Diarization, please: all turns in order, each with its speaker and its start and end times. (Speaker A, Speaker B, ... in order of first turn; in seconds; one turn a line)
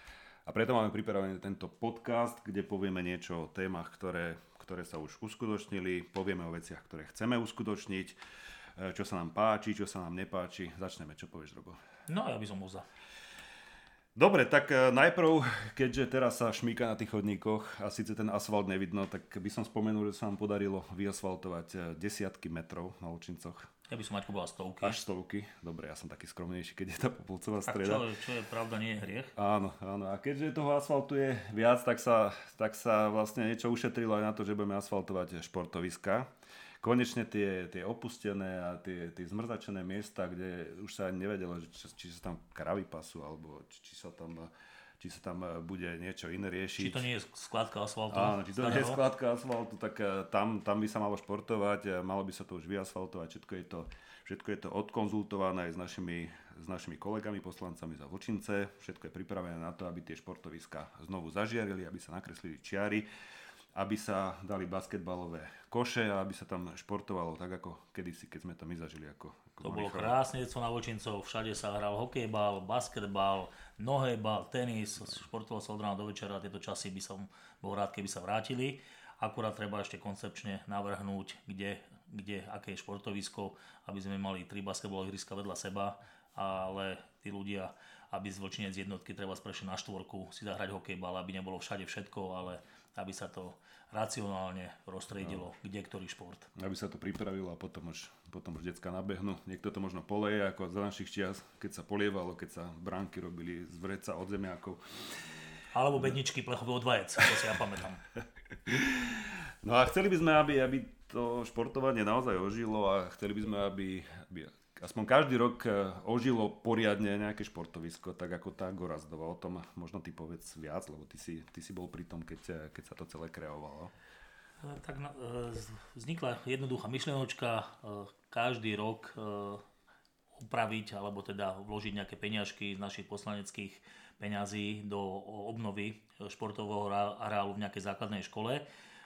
Speaker A: 0.5-8.2
Speaker A: 8.8-11.8
Speaker B: 12.1-12.8
Speaker A: 14.2-23.7
Speaker B: 23.9-25.0
Speaker A: 24.8-28.1
Speaker B: 27.6-29.3
Speaker A: 29.3-36.3
Speaker A: 36.8-47.1
Speaker B: 46.8-49.0
Speaker A: 48.1-63.0
Speaker A: 63.7-70.2
Speaker B: 69.6-96.5
Speaker A: 96.5-104.8
Speaker B: 105.7-108.0
Speaker A: 108.7-123.9
Speaker B: 124.6-129.6
Speaker B: 130.3-138.6